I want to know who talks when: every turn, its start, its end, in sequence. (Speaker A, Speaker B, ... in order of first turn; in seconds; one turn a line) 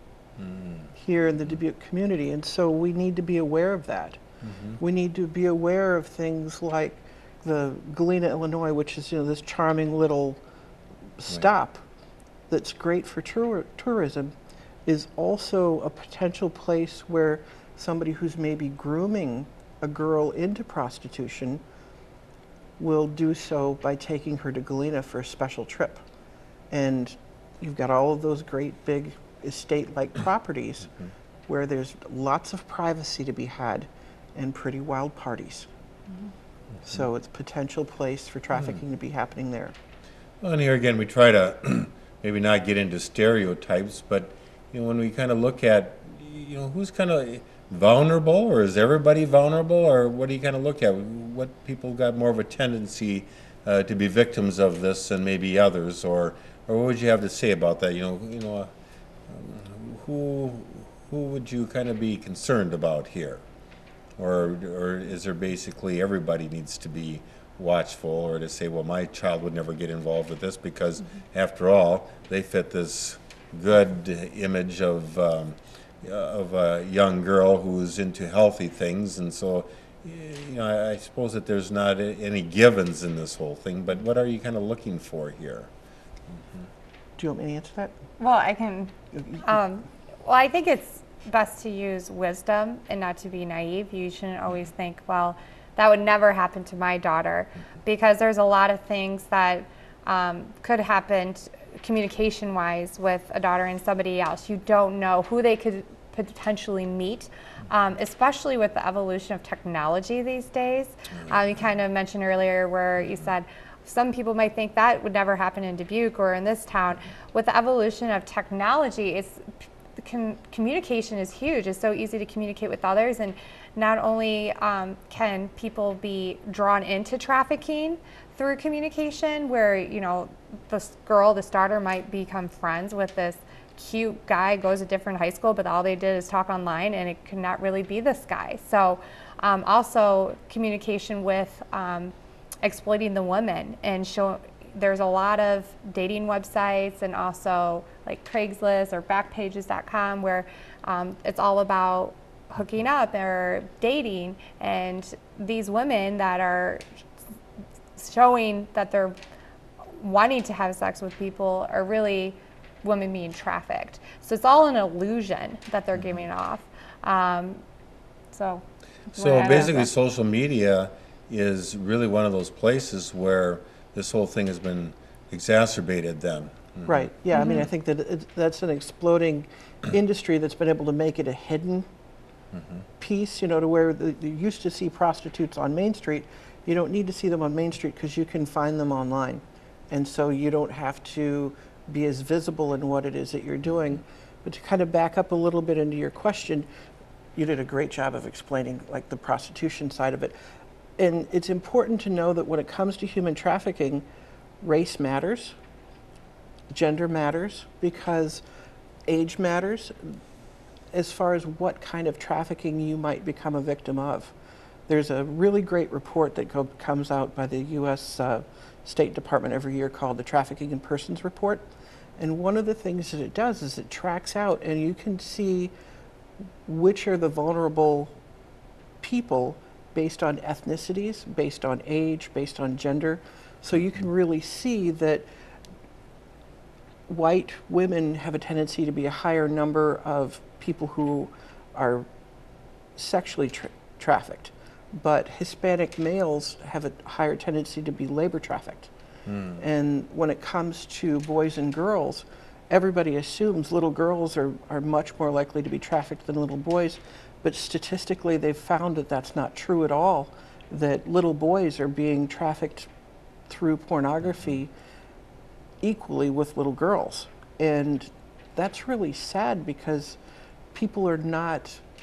Speaker A: 0.4-0.9
Speaker B: 1.0-4.2
Speaker A: 4.4-4.8
Speaker B: 4.8-10.4
Speaker B: 11.2-11.8
Speaker B: 12.5-14.3
Speaker B: 14.9-21.6
Speaker B: 22.8-26.0
Speaker B: 26.7-30.9
Speaker B: 31.5-35.7
Speaker B: 36.8-39.8
Speaker A: 40.4-58.7
Speaker A: 59.3-63.4
Speaker A: 64.2-85.7
Speaker B: 87.2-88.0
Speaker C: 88.2-119.4
Speaker C: 120.0-156.8
Speaker C: 158.0-159.2
Speaker C: 159.9-167.6
Speaker C: 168.3-169.9
Speaker A: 169.2-177.1
Speaker B: 176.9-181.9
Speaker C: 177.3-177.7
Speaker B: 183.0-196.7
Speaker B: 197.4-200.3
Speaker B: 201.0-204.0
Speaker B: 204.6-205.6
Speaker B: 206.7-208.4
Speaker B: 209.1-210.2
Speaker B: 210.9-214.3
Speaker B: 214.9-225.7
Speaker B: 226.7-228.1
Speaker B: 229.0-235.3
Speaker B: 237.1-242.1
Speaker B: 243.0-248.9
Speaker A: 249.3-249.6
Speaker B: 249.6-262.9
Speaker B: 263.5-264.7
Speaker B: 265.8-270.2
Speaker B: 270.7-271.8